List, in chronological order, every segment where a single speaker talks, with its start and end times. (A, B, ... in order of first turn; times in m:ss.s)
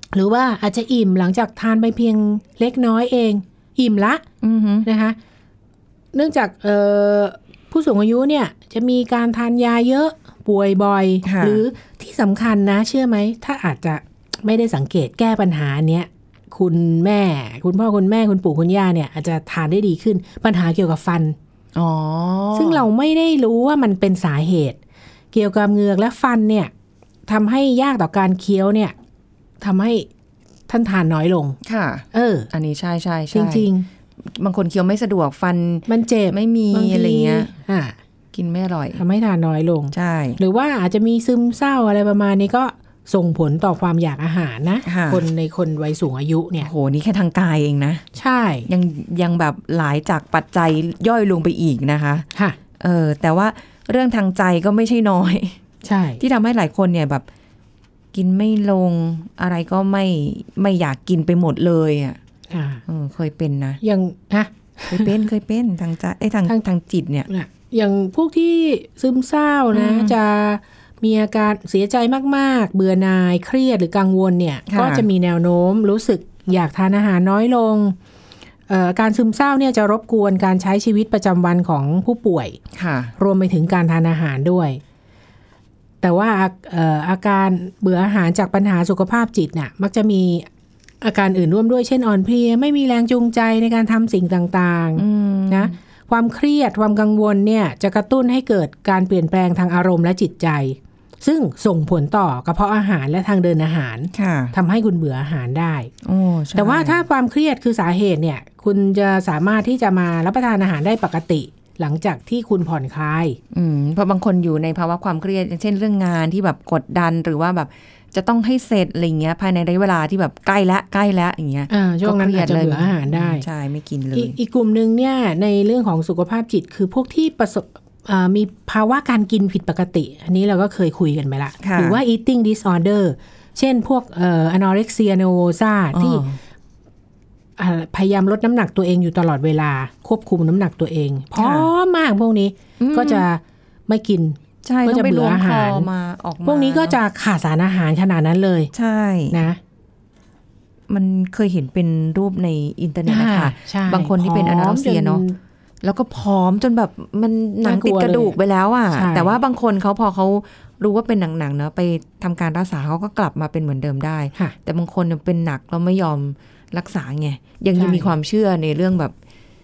0:00.1-0:04.2 A
0:04.4-0:04.9 B
0:04.8-0:05.2 A
0:06.1-0:21.4 A
0:11.2-0:11.6 B
0:21.8-0:22.8 B
0:22.5-0:24.8 A
0:25.3-0:26.7 A
0:27.3-0:29.0 A
0:29.6-0:30.1 A
0:30.7-0:31.6 A
0:31.6-0:33.7 B
0:32.1-0:32.5 A
0:33.3-0:33.9 A
0:34.2-0:37.5 B
0:35.9-0:38.0 A
0:38.3-0:39.0 B
0:39.0-0:46.7 A
0:39.9-0:40.4 B
0:44.8-0:45.2 B
0:46.6-0:48.0 B
0:48.2-0:48.7 A
0:48.7-0:52.3 B
0:52.8-0:55.6 B
0:55.8-0:56.2 A
0:56.2-0:57.3 B
0:58.1-1:02.2 B
1:02.5-1:02.8 A
1:02.9-1:03.8 B
1:03.8-1:05.2 A
1:04.9-1:07.3 B
1:07.3-1:18.0 A
1:09.7-1:10.2 B
1:14.7-1:15.1 B
1:18.7-1:22.6 A
1:22.7-1:23.1 B
1:23.2-1:24.8 A
1:26.0-1:30.5 A
1:31.0-1:45.9 A
1:35.0-1:35.7 B
1:44.1-1:44.6 B
1:46.0-1:47.0 B
1:46.6-1:53.4 A
1:53.5-2:04.4 B
2:01.7-2:03.4 A
2:04.1-2:16.2 A
2:11.6-2:12.0 B
2:15.9-2:16.4 B
2:17.6-2:25.9 A
2:21.4-2:21.7 B
2:22.8-2:23.3 B
2:24.6-2:27.0 B
2:26.4-2:28.7 A
2:28.7-2:29.4 B
2:29.3-2:29.6 A
2:30.9-2:35.2 B
2:33.1-2:35.4 A
2:35.8-2:49.1 B
2:37.6-2:38.4 A
2:38.9-2:39.4 A
2:47.8-2:48.1 A